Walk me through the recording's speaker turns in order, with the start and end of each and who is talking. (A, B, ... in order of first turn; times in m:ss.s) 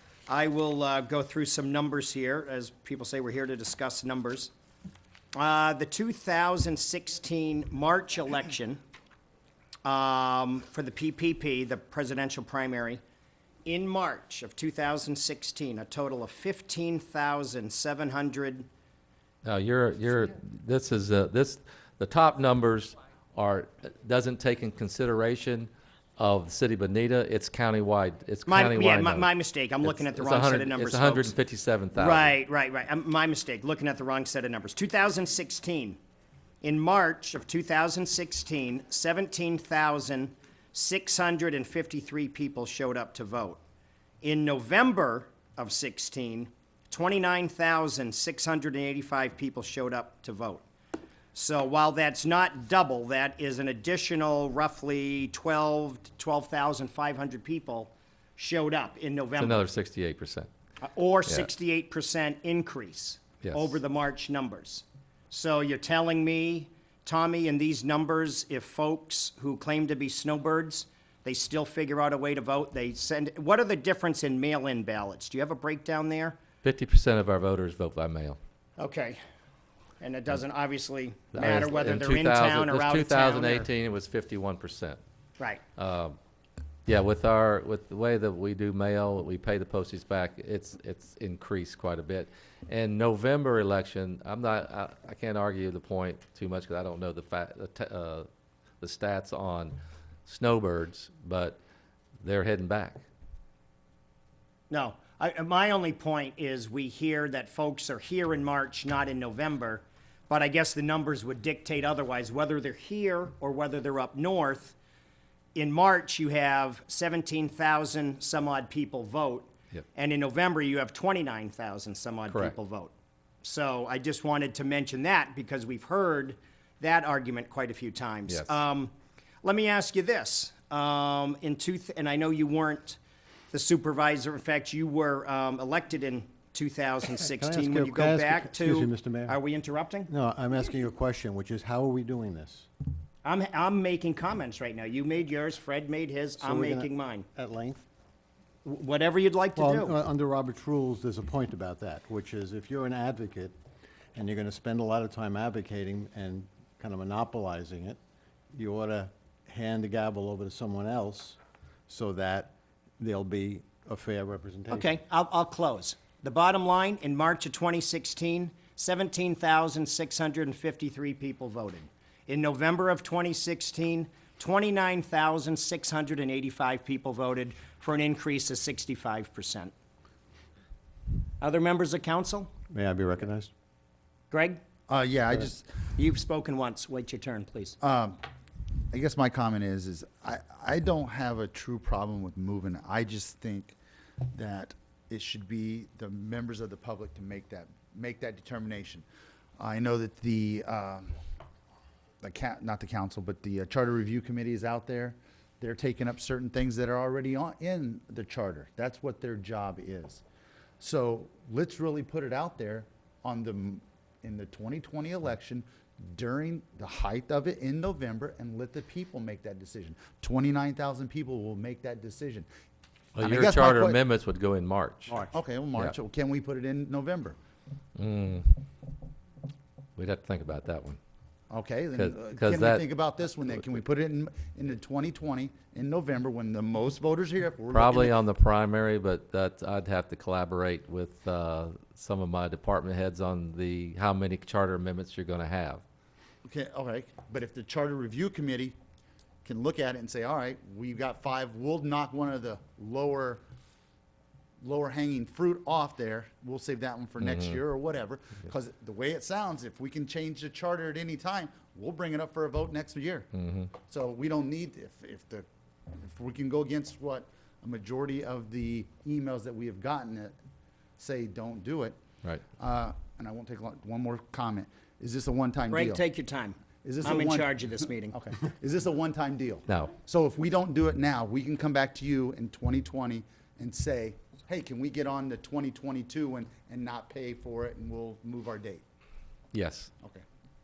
0:00.3-0:04.5 A
0:05.4-0:08.8 A
0:09.8-0:13.0 A
0:13.7-0:18.7 A
0:19.4-0:29.3 B
0:28.5-0:31.4 A
0:29.8-0:32.3 B
0:32.0-0:36.0 A
0:36.6-0:43.6 A
0:44.2-0:50.6 A
0:51.3-0:59.7 A
0:59.4-1:00.5 B
1:00.8-1:16.4 A
1:03.4-1:03.8 B
1:16.6-1:18.4 B
1:18.8-1:19.2 A
1:20.0-1:23.7 A
1:21.3-1:25.0 B
1:25.8-1:26.2 B
1:26.9-1:38.3 B
1:38.8-1:41.6 B
1:42.2-1:43.0 B
1:44.7-1:54.8 A
1:55.6-2:13.0 A
2:08.3-2:08.6 B
2:13.5-2:20.1 A
2:17.3-2:19.4 C
2:20.1-2:22.7 C
2:23.2-2:27.3 A
2:26.4-2:27.8 C
2:28.6-2:30.0 A
2:29.6-2:33.6 C
2:34.2-2:38.0 C
2:38.6-2:45.0 C
2:44.7-2:59.7 A
3:01.4-3:02.5 A
3:02.7-3:03.5 C
3:04.3-3:04.6 A
3:04.9-3:05.7 D
3:06.0-3:07.8 A
3:07.8-3:08.2 D
3:08.9-3:13.8 D
3:14.3-3:19.0 D
3:19.6-3:21.2 D
3:22.2-3:30.2 D
3:30.8-3:42.5 D
3:43.2-3:45.2 B
3:43.2-3:44.0 D
3:45.1-3:47.4 D
3:48.0-3:48.6 B
3:50.0-3:51.0 B
3:51.5-3:58.2 D
3:52.0-3:52.8 B
3:57.7-4:05.8 B
4:06.4-4:08.8 D
4:09.4-4:13.4 D
4:14.6-4:23.3 D
4:17.2-4:17.6 B
4:23.4-4:23.7 B
4:23.8-4:30.4 D
4:31.0-4:32.0 D
4:32.6-4:36.0 D
4:35.7-4:38.2 A
4:36.8-4:48.8 D
4:39.7-4:39.9 B
4:49.5-4:49.9 B